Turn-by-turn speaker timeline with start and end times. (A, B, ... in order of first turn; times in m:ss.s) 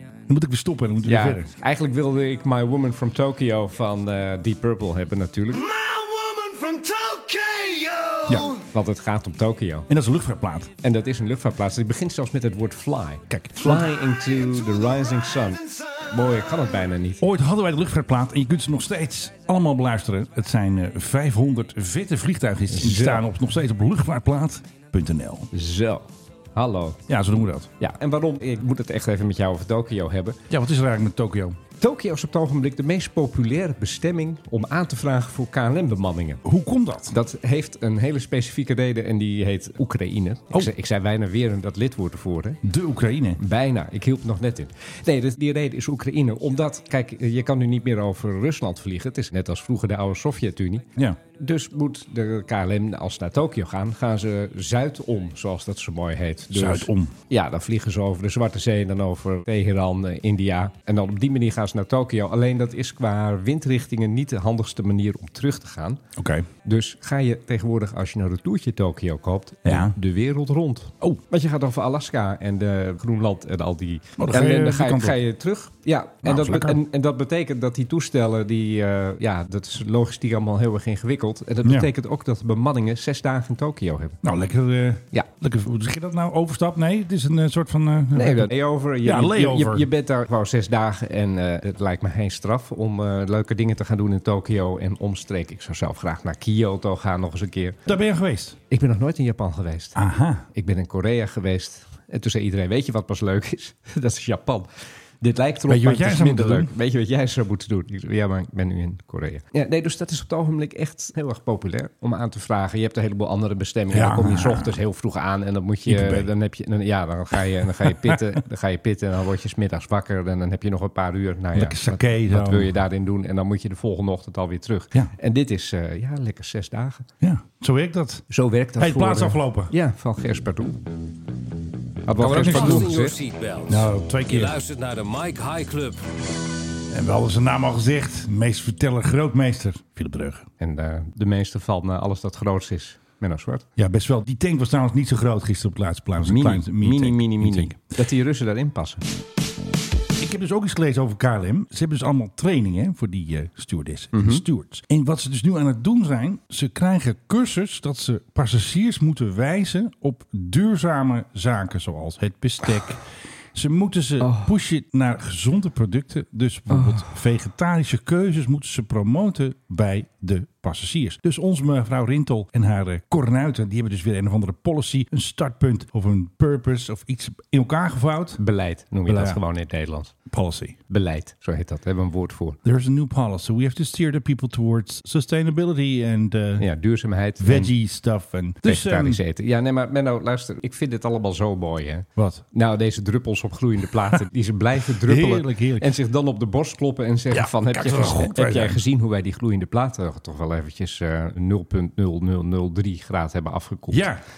0:00.3-0:01.5 A
0:01.0-0:05.7 B
0:05.7-0:08.5 C
0:08.5-0:09.9 B
0:09.9-0:10.7 A
0:10.8-0:17.2 B
0:13.3-0:14.0 A
0:17.2-0:25.5 A
0:22.7-0:23.2 B
0:25.5-0:27.0 B
0:27.1-0:27.7 A
0:27.8-0:30.4 B
0:30.5-0:31.6 A
0:31.8-0:36.4 B
0:36.4-0:37.1 A
0:37.1-0:42.6 B
0:42.6-0:43.4 A
0:43.4-1:06.0 B
0:56.5-0:57.1 A
1:06.2-1:06.5 A
1:06.6-1:24.2 B
1:09.6-1:10.0 A
1:14.2-1:15.2 A
1:16.2-1:16.8 A
1:21.6-1:21.9 A
1:24.2-1:29.9 A
1:28.1-1:37.8 B
1:37.8-1:38.6 A
1:38.7-1:40.0 B
1:40.0-1:40.5 A
1:40.5-1:44.7 B
1:45.2-2:07.1 B
1:45.7-1:46.7 A
1:53.9-1:54.8 A
1:55.9-1:56.3 A
1:57.8-1:58.2 A
2:01.5-2:02.7 A
2:07.2-2:09.7 A
2:08.3-2:10.8 B
2:12.1-2:13.2 B
2:12.2-2:12.9 A
2:12.2-2:16.0 D
2:13.7-2:14.6 A
2:16.9-2:20.5 A
2:20.6-2:23.6 B
2:23.8-2:27.8 A
2:26.2-2:29.0 B
2:30.2-2:58.4 A
2:34.1-2:34.4 B
2:44.2-2:44.5 B
2:46.7-2:47.1 B
2:58.4-3:00.1 B
2:59.0-2:59.4 A
3:00.3-3:00.8 A
3:00.9-3:02.6 B
3:02.6-3:06.6 A
3:06.6-3:07.7 B
3:07.4-3:09.2 A
3:08.6-3:24.1 B
3:12.2-3:12.4 A
3:15.0-3:15.9 A
3:17.3-3:18.8 A
3:23.9-3:24.2 A